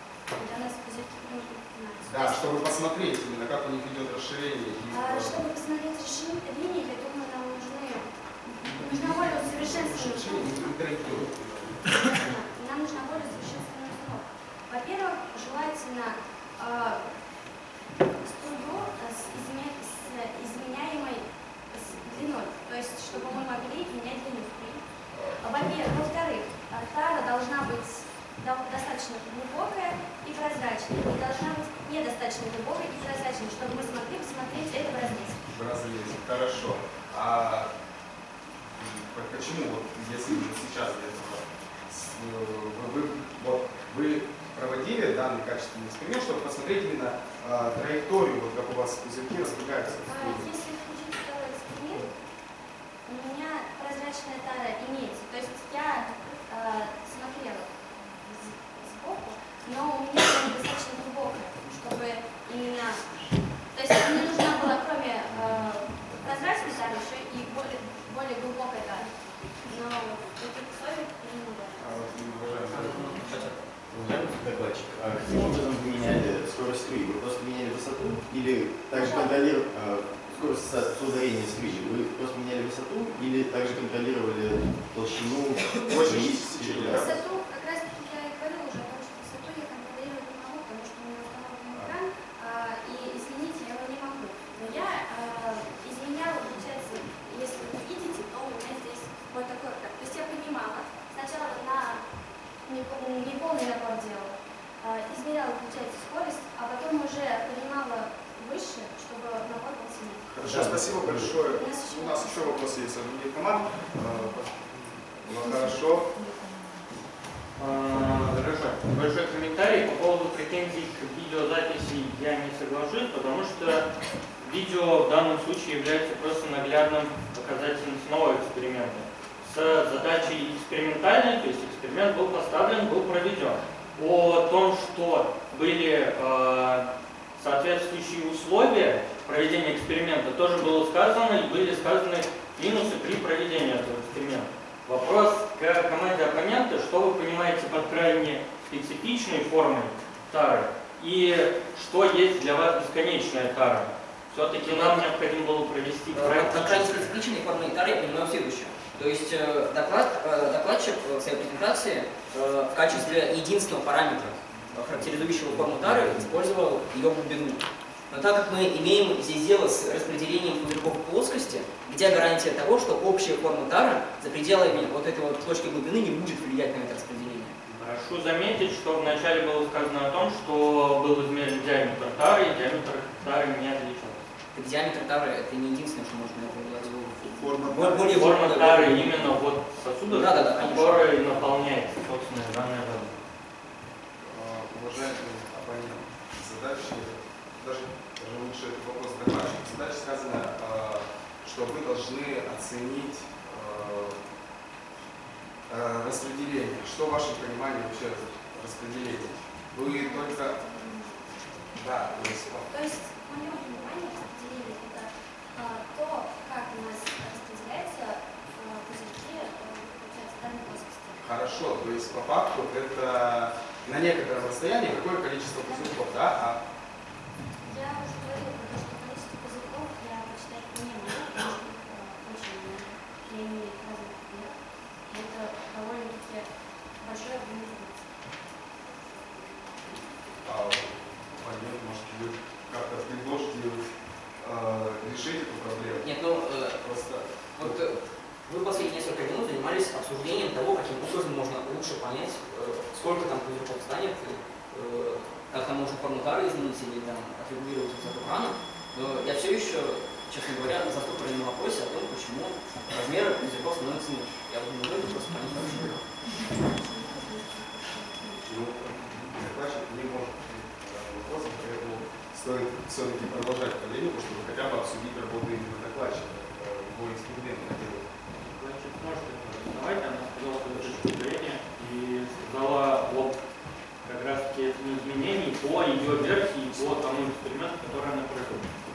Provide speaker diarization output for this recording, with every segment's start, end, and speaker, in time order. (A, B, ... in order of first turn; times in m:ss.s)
0:00.3-0:02.6 A
0:02.1-0:05.4 B
0:04.9-0:10.7 A
0:08.8-0:12.0 B
0:12.0-0:17.2 A
0:18.0-0:35.4 A
0:35.5-0:37.7 B
0:38.7-0:50.5 B
0:50.0-0:52.2 A
0:53.0-1:12.0 A
1:11.8-1:13.2 B
1:12.6-1:13.7 C
1:13.9-1:27.2 D
1:18.9-1:19.4 A
1:25.9-1:27.2 B
1:26.9-1:42.0 A
1:42.6-1:50.4 A
1:50.3-1:56.2 B
1:50.4-1:51.2 D
1:51.3-1:52.7 A
1:57.6-2:37.0 E
2:34.6-2:35.0 C
2:36.1-2:57.6 C
2:57.7-3:04.2 E
3:04.5-3:09.3 C
3:07.4-3:08.2 B
3:08.0-3:13.2 E
3:10.1-3:11.2 C
3:14.2-3:24.2 B
3:25.7-3:30.6 B
3:29.8-3:31.3 A
3:31.8-3:32.7 B
3:32.7-3:41.2 A
3:41.2-3:46.6 B
3:47.6-3:58.1 A
4:00.4-4:03.8 B
4:04.4-4:06.0 B
4:05.9-4:06.8 C
4:06.8-4:07.9 B
4:07.6-4:26.0 C
4:26.3-4:28.6 A
4:28.5-4:38.0 B
4:38.4-4:43.4 E
4:44.0-4:48.7 E